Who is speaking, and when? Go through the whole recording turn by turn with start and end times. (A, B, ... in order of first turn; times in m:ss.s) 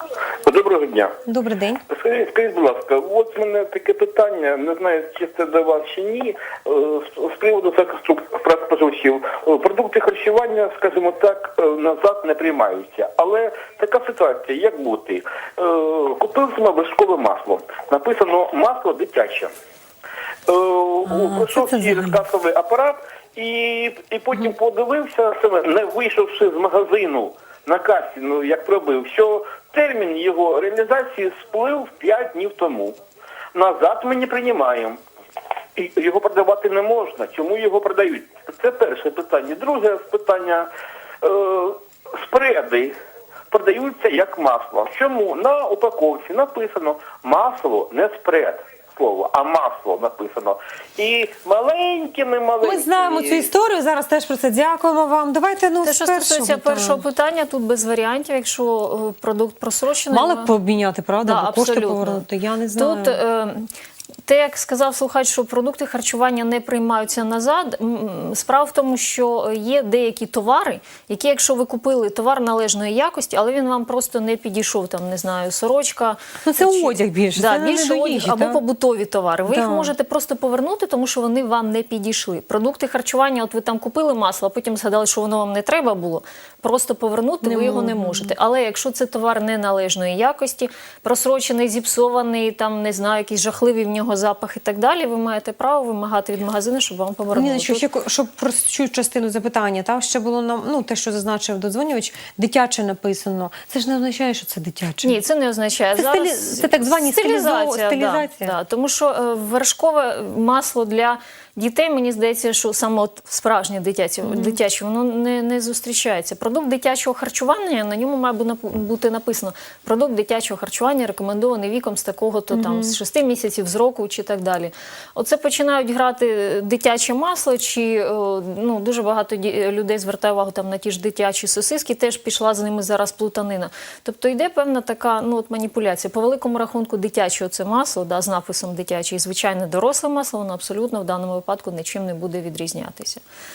0:00.5-0:01.1 A
0:01.3-0:01.8 B
0:01.9-0:19.5 A
0:20.5-0:33.0 A
0:21.1-0:22.2 B
0:33.6-0:35.0 A
0:35.8-0:40.7 A
0:41.2-0:42.9 A
0:43.5-0:53.5 A
0:52.6-0:57.0 B
0:55.8-1:00.5 C
1:00.1-1:03.2 B
1:01.2-1:03.7 C
1:04.3-1:37.9 C
1:16.4-1:18.6 B
1:19.5-1:19.9 B
1:27.4-1:28.3 B
1:37.3-1:45.2 B
1:45.0-2:23.2 C
1:46.0-1:48.6 B
1:54.2-1:54.6 B
2:02.5-2:03.0 B